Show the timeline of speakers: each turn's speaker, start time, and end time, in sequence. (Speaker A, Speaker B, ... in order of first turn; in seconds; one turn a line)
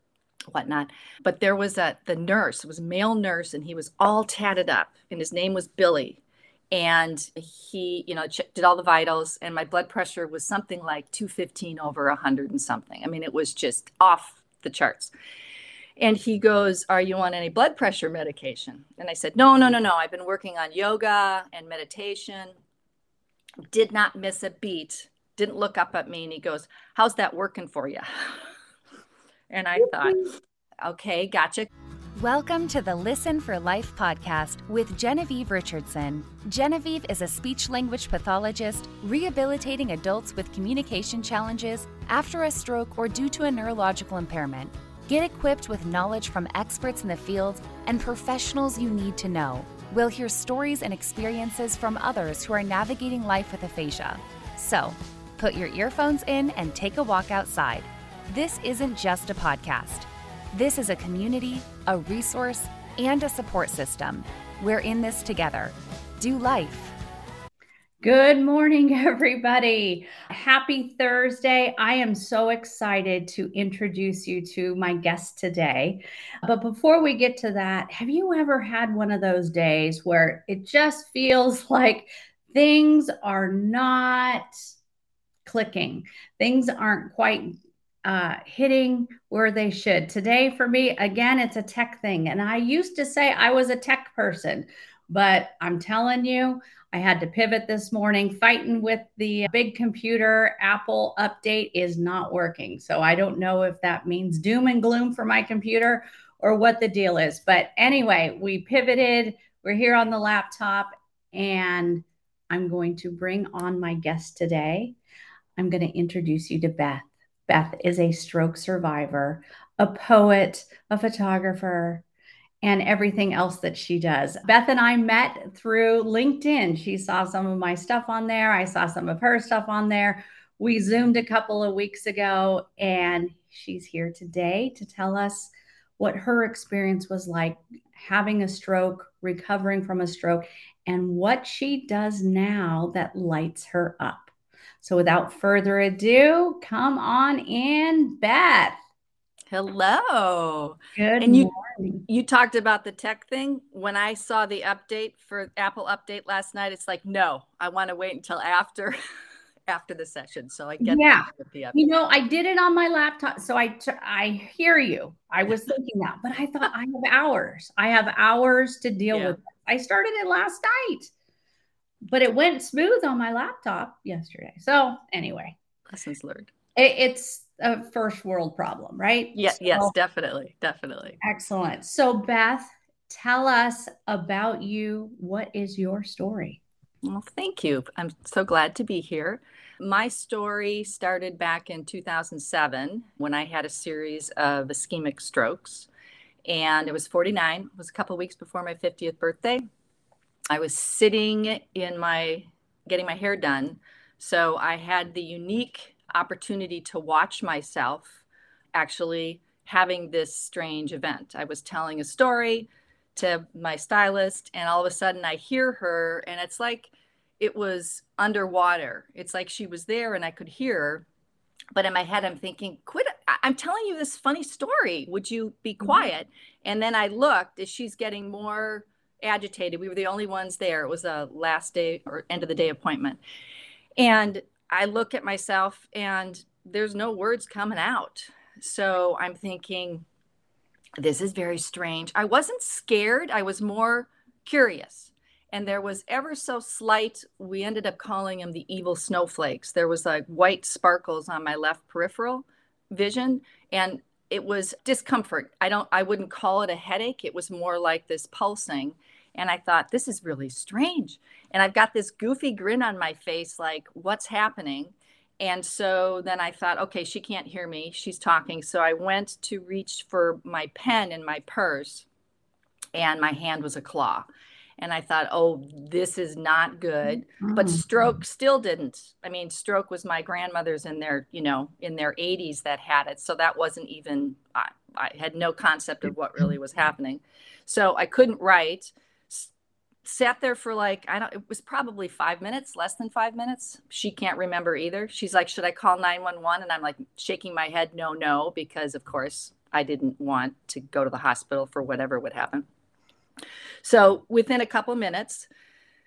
Speaker A: 0.5-6.2
Speaker A: 6.7-15.1
Speaker A: 16.0-22.6
Speaker A: 23.7-28.4
Speaker A: 29.5-30.3
Speaker A: 30.8-31.7
Speaker B: 32.2-66.9
Speaker C: 68.0-84.5
Speaker C: 85.4-115.0
Speaker C: 115.5-122.0
Speaker C: 122.6-148.8
Speaker A: 149.5-151.5
Speaker C: 151.0-152.0
Speaker A: 152.1-159.0
Speaker A: 159.7-161.8
Speaker C: 160.8-171.1
Speaker C: 172.0-175.6
Speaker A: 175.9-176.5
Speaker C: 176.8-179.9
Speaker A: 179.3-181.2
Speaker C: 181.2-186.6
Speaker A: 187.0-195.9
Speaker A: 196.5-199.7
Speaker A: 200.5-208.2
Speaker A: 208.7-221.1
Speaker A: 221.8-233.2
Speaker A: 234.0-240.0
Speaker A: 241.0-272.1
Speaker A: 272.9-274.2
Speaker A: 274.8-289.5
Speaker C: 277.4-277.8
Speaker A: 290.0-302.6
Speaker A: 303.8-305.5